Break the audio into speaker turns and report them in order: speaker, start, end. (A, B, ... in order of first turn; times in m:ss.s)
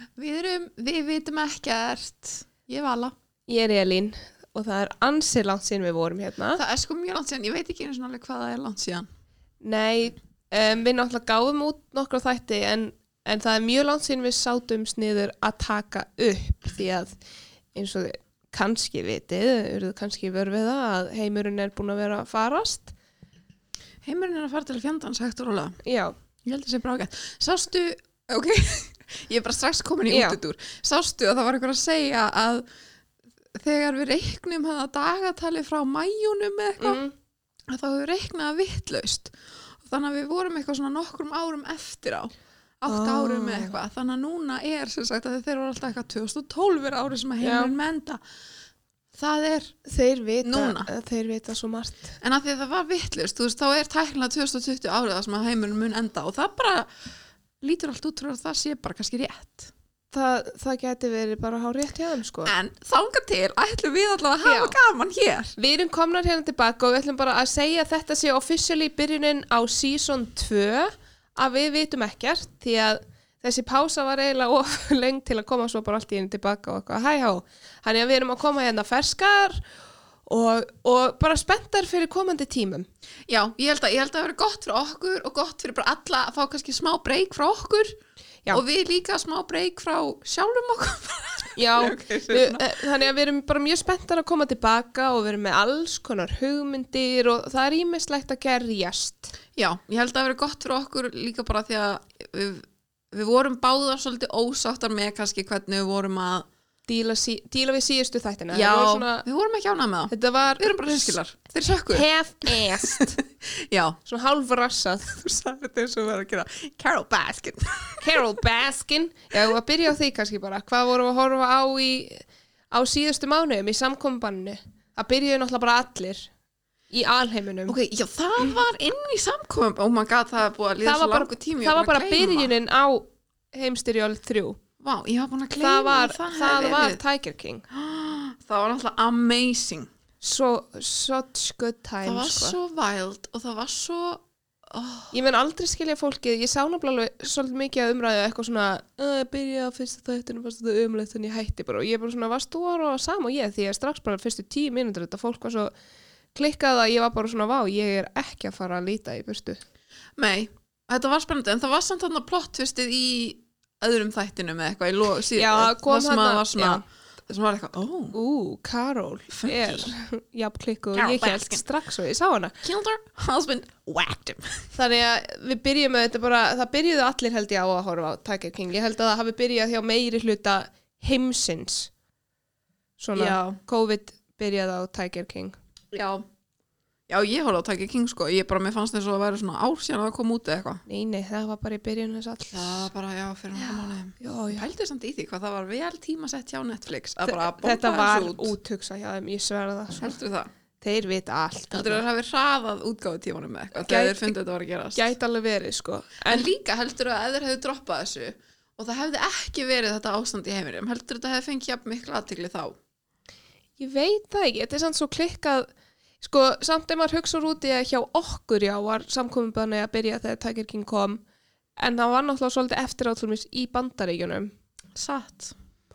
0:00.2-0:03.1 A
0:03.5-0:06.6 B
0:06.6-0:09.1 A
0:09.6-0:17.2 B
0:17.8-0:22.9 B
0:24.0-0:25.8 A
0:25.8-0:26.2 B
0:26.4-0:32.6 A
0:30.1-0:30.4 B
0:33.6-0:37.0 A
0:36.8-0:37.1 B
0:37.7-0:48.2 A
0:42.9-0:43.8 B
0:47.4-0:47.7 B
0:49.2-0:49.8 A
0:49.8-0:52.2 B
0:50.4-0:50.9 A
0:52.2-0:56.9 A
0:57.6-0:59.7 A
1:00.1-1:02.5 B
1:02.4-1:05.6 A
1:04.4-1:04.8 B
1:05.6-1:19.6 B
1:20.3-1:22.9 B
1:23.3-1:28.0 A
1:28.5-1:32.7 A
1:31.6-1:39.3 B
1:39.6-1:46.5 A
1:46.9-1:49.2 B
1:48.5-1:54.0 A
1:50.1-1:51.2 B
1:51.9-1:53.2 B
1:54.1-1:55.2 B
1:55.1-1:58.2 A
1:58.0-2:06.3 B
2:06.9-2:07.8 B
2:07.7-2:12.5 A
2:10.8-2:14.6 B
2:14.8-2:17.0 A
2:15.6-2:17.6 B
2:17.7-2:19.9 A
2:20.2-2:22.6 B
2:22.0-2:25.1 A
2:25.1-2:35.7 B
2:36.4-2:39.6 B
2:40.2-2:48.2 A
2:45.4-2:46.8 B
2:48.1-2:52.6 B
2:49.3-2:49.9 A
2:51.0-2:51.6 A
2:52.6-2:54.7 A
2:54.8-3:01.9 B
3:03.0-3:05.6 B
3:03.2-3:03.6 A
3:05.9-3:06.2 A
3:07.1-3:10.8 A
3:10.9-3:12.9 B
3:12.5-3:18.5 A
3:14.2-3:14.7 B
3:17.2-3:20.2 B
3:20.0-3:20.5 A
3:20.8-3:22.0 B
3:21.7-3:25.1 A
3:23.7-3:24.3 B
3:25.0-3:26.5 B
3:26.3-3:32.8 A
3:33.8-3:35.7 B
3:36.2-3:41.2 B
3:41.8-3:44.5 B
3:45.0-3:45.5 A